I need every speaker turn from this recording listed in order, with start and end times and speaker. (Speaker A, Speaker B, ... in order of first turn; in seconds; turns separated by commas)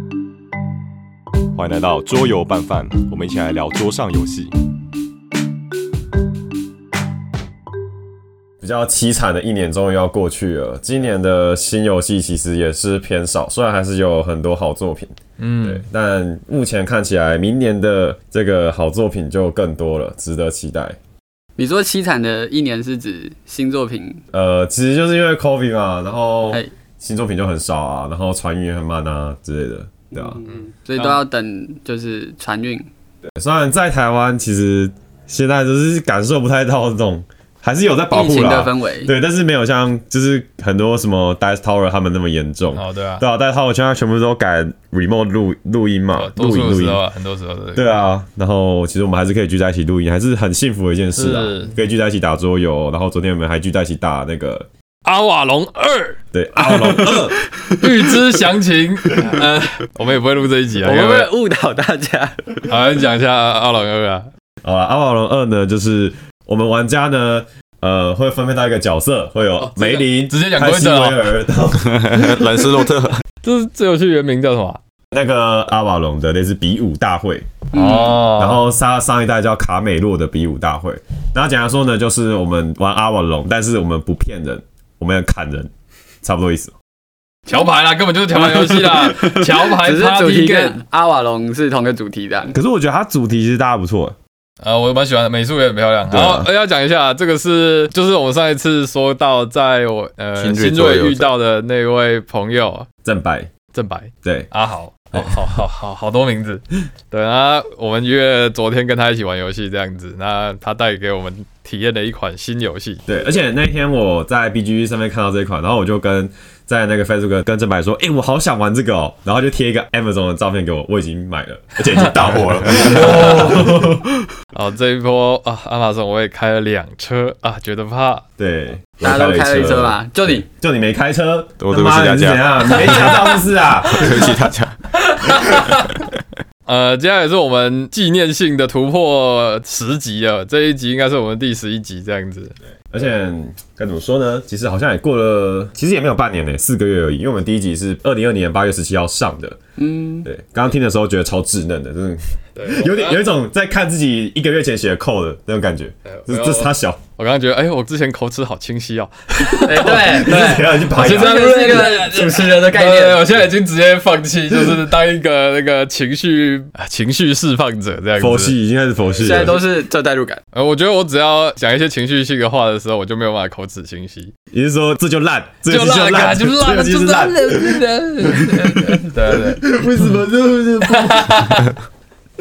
Speaker A: 1.6-4.5, Speaker A: 8.6-21.0, Speaker B: 15.4-15.8, Speaker C: 21.6-24.2, Speaker A: 24.3-30.4, Speaker C: 30.4-32.9, Speaker A: 33.4-47.0, Speaker C: 38.1-39.1, Speaker B: 42.8-43.2, Speaker B: 46.2-47.9, Speaker A: 47.8-54.7, Speaker B: 51.2-51.7, Speaker B: 55.0-57.2, Speaker A: 56.3-57.4, Speaker C: 57.6-57.9, Speaker B: 57.7-61.3, Speaker C: 60.8-62.7, Speaker B: 62.7-64.3, Speaker A: 64.6-72.3, Speaker B: 69.6-71.3, Speaker D: 71.8-73.2, Speaker B: 73.4-74.8, Speaker A: 75.1-77.6, Speaker C: 77.7-78.3, Speaker B: 77.7-78.6, Speaker A: 78.4-85.7, Speaker A: 86.2-86.7, Speaker B: 87.5-90.8, Speaker C: 88.3-92.5, Speaker A: 92.5-94.2, Speaker B: 94.6-102.9, Speaker A: 96.1-96.5, Speaker D: 100.4-101.3, Speaker A: 103.0-103.5, Speaker B: 103.7-113.0, Speaker A: 104.2-104.5, Speaker A: 113.1-124.1, Speaker D: 122.4-123.0, Speaker B: 122.7-123.8, Speaker B: 124.5-128.2, Speaker A: 128.4-134.3, Speaker C: 129.0-130.4, Speaker D: 131.6-132.4, Speaker B: 132.9-133.3, Speaker D: 133.9-134.8, Speaker B: 135.0-136.1, Speaker B: 136.7-142.5, Speaker A: 142.9-149.6, Speaker C: 149.8-150.3, Speaker A: 150.2-157.0, Speaker B: 152.6-153.3, Speaker B: 156.1-168.5, Speaker C: 159.6-163.4, Speaker A: 159.8-161.6, Speaker A: 168.2-169.6, Speaker C: 169.2-170.4, Speaker B: 170.5-174.3, Speaker A: 174.5-181.6, Speaker B: 175.7-177.6, Speaker C: 177.1-179.1, Speaker B: 179.0-179.8, Speaker B: 180.9-181.7